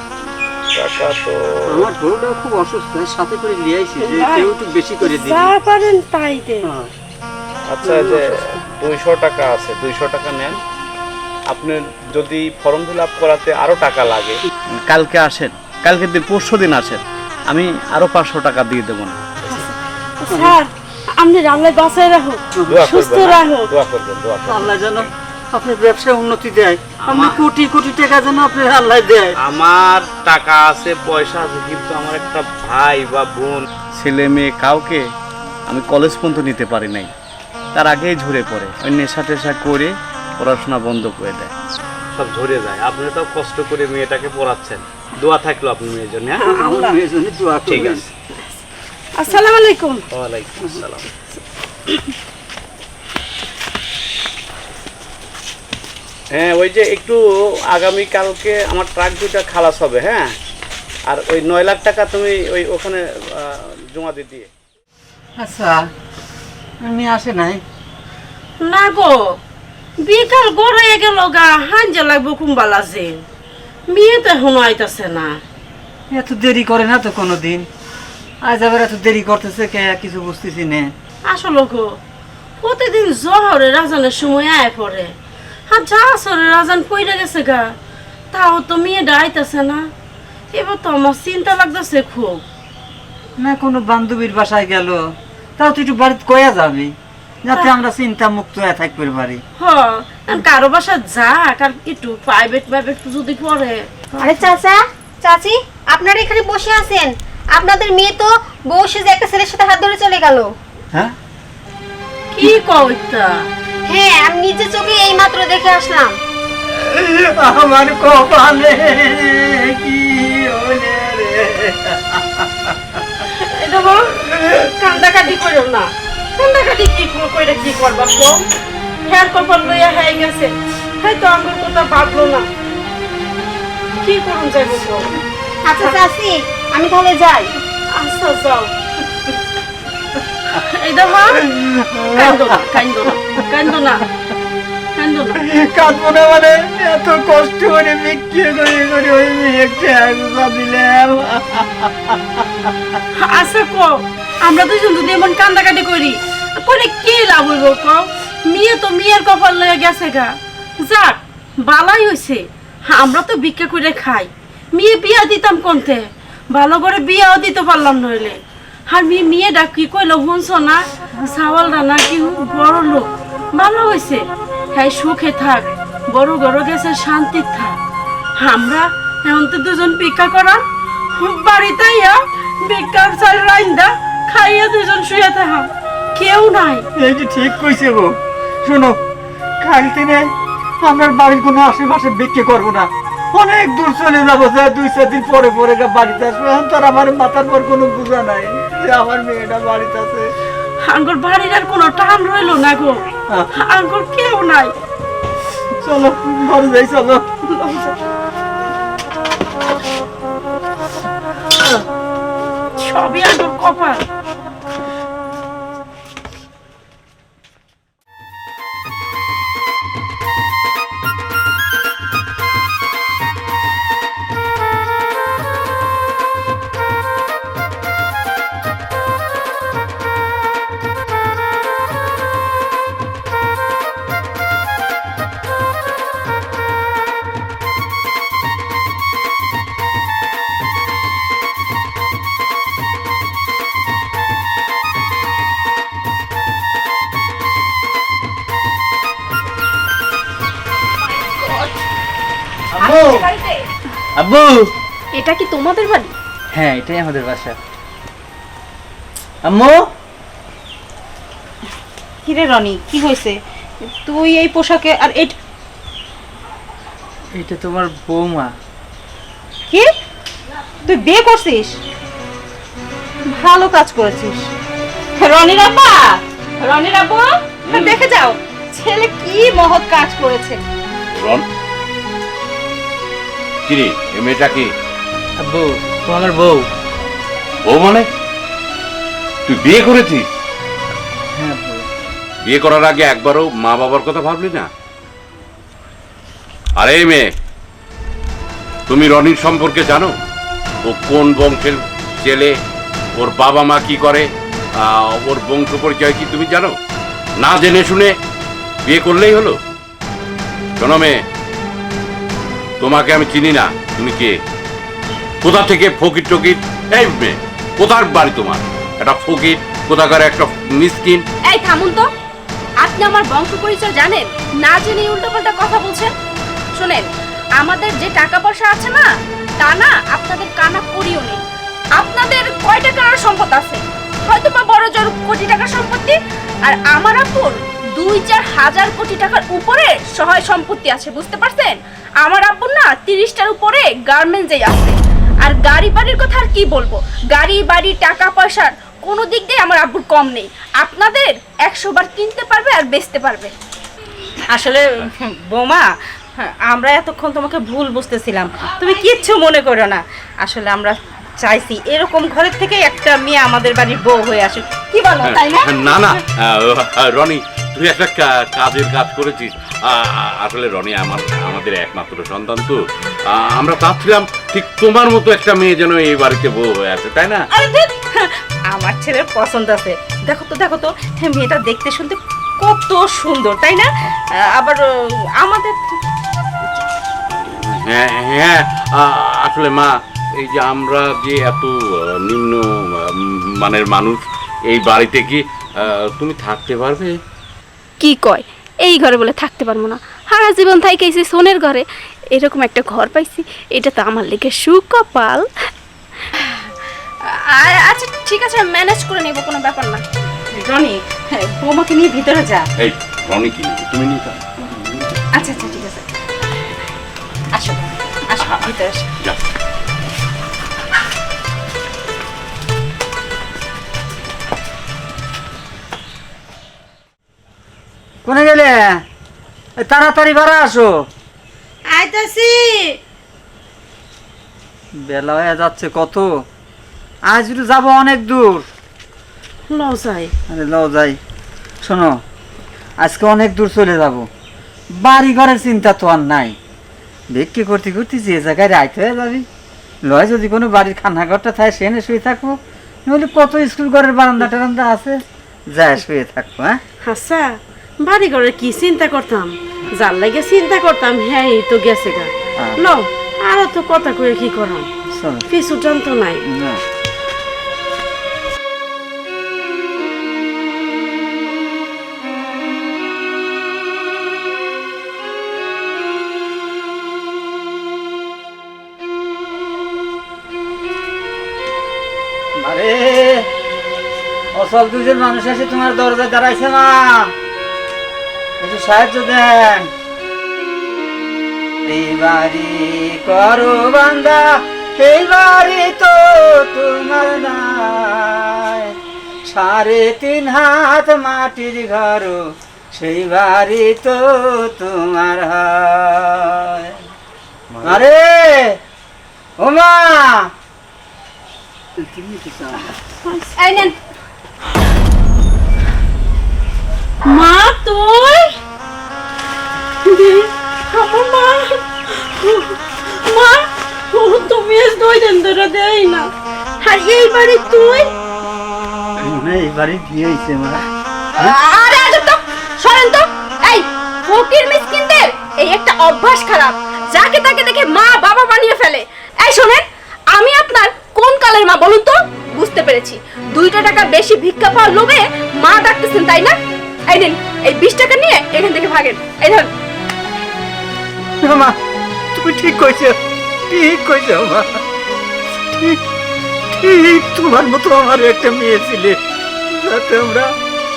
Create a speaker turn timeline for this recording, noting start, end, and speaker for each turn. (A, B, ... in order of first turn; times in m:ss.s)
0:00.7-0:01.9 A
0:01.7-0:05.5 B
0:04.0-0:04.5 C
0:05.0-0:06.7 C
0:06.6-0:06.9 B
0:07.7-0:10.6 A
0:07.8-0:08.6 B
0:11.5-0:19.7 A
0:19.5-0:23.7 C
0:22.7-0:24.8 A
0:24.5-0:29.3 B
0:27.0-0:27.4 A
0:29.4-0:35.0 A
0:35.7-0:37.1 A
0:37.8-0:41.5 A
0:42.2-0:46.4 A
0:46.4-0:46.9 C
0:46.4-0:48.0 B
0:47.7-0:48.1 A
0:49.2-0:50.0 C
0:50.1-0:51.1 A
0:56.3-1:00.3 A
1:01.1-1:04.5 A
1:05.4-1:05.9 B
1:06.8-1:07.6 B
1:08.6-1:09.4 C
1:10.0-1:13.2 C
1:13.9-1:15.4 C
1:16.1-1:17.7 B
1:18.4-1:20.9 B
1:21.3-1:22.0 C
1:22.6-1:25.1 C
1:25.7-1:27.7 C
1:28.3-1:29.8 C
1:30.5-1:32.4 C
1:33.4-1:35.0 B
1:35.6-1:36.9 B
1:37.4-1:39.4 B
1:39.6-1:43.9 C
1:44.1-1:50.5 D
1:52.3-1:53.5 C
1:53.9-1:56.2 D
1:56.7-2:03.2 B
2:03.3-2:08.5 C
2:04.2-2:04.6 B
2:09.1-2:12.5 C
2:14.0-2:15.1 C
2:15.6-2:17.5 D
2:17.9-2:18.7 C
2:20.5-2:21.4 C
2:21.3-2:22.8 B
2:22.1-2:24.1 C
2:25.0-2:25.4 C
2:25.4-2:32.7 B
2:33.1-2:48.4 C
2:48.9-2:57.8 C
2:58.4-3:06.9 C
3:07.0-3:09.0 B
3:09.6-3:20.3 B
3:20.8-3:23.0 C
3:23.5-3:24.7 C
3:25.8-3:27.2 B
3:27.5-3:27.9 C
3:32.8-3:34.0 C
4:11.2-4:11.8 E
4:12.8-4:13.6 E
4:12.8-4:13.1 F
4:14.2-4:14.7 F
4:15.1-4:16.1 E
4:16.5-4:17.5 F
4:19.5-4:19.9 F
4:22.2-4:25.4 G
4:27.4-4:28.5 F
4:30.9-4:31.8 G
4:33.3-4:34.5 G
4:35.2-4:40.6 G
4:37.6-4:38.0 H
4:41.1-4:41.4 H
4:43.7-4:44.7 H
4:45.4-4:46.7 F
4:47.6-4:48.1 H
4:49.5-4:50.3 H
4:51.4-4:51.8 F
4:52.4-4:54.7 H
4:56.8-4:57.3 H
4:58.9-5:00.1 H
5:00.8-5:02.5 H
5:03.2-5:06.8 H
5:07.4-5:08.1 H
5:08.9-5:09.6 H
5:10.8-5:11.2 H
5:12.8-5:14.4 H
5:15.4-5:21.2 H
5:21.4-5:22.1 E
5:22.8-5:26.1 E
5:26.8-5:27.1 E
5:27.6-5:29.1 E
5:29.6-5:31.4 E
5:32.0-5:53.5 E
5:54.5-6:06.2 G
6:05.2-6:17.4 H
6:17.5-6:24.8 G
6:25.4-6:26.0 G
6:27.3-6:37.2 H
6:38.0-6:45.5 E
6:46.3-6:46.7 E
6:47.2-6:50.0 E
6:50.5-6:52.7 G
6:52.8-6:55.0 H
6:55.3-6:56.0 G
6:57.5-6:59.1 G
6:58.4-6:58.7 H
7:08.2-7:09.0 B
7:09.8-7:11.0 B
7:11.9-7:13.0 C
7:15.0-7:16.3 B
7:17.3-7:18.6 B
7:19.7-7:20.3 C
7:20.5-7:21.2 B
7:21.8-7:22.2 B
7:23.0-7:24.3 B
7:24.9-7:26.6 B
7:27.3-7:29.4 B
7:30.1-7:32.6 B
7:33.1-7:35.2 B
7:35.7-7:36.8 B
7:37.0-7:37.5 C
7:38.0-7:44.9 C
7:45.1-7:45.4 B
7:45.5-7:46.4 C
7:46.5-7:46.8 B
8:02.6-8:03.5 B
8:04.6-8:07.3 B
8:08.6-8:09.9 B
8:11.8-8:18.9 B
8:19.5-8:22.4 B
8:22.9-8:27.0 B
8:27.8-8:28.8 B
8:29.6-8:30.5 B
8:32.0-8:32.9 B
8:33.1-8:33.9 C
8:33.6-8:33.9 E
8:37.2-8:38.6 C
8:40.0-8:46.3 C
8:46.8-8:48.1 C
8:49.2-8:50.8 B
8:51.4-9:06.6 E
9:07.1-9:09.7 E
9:11.4-9:11.8 B
9:12.3-9:14.8 B
9:15.6-9:16.0 B
9:16.7-9:20.5 B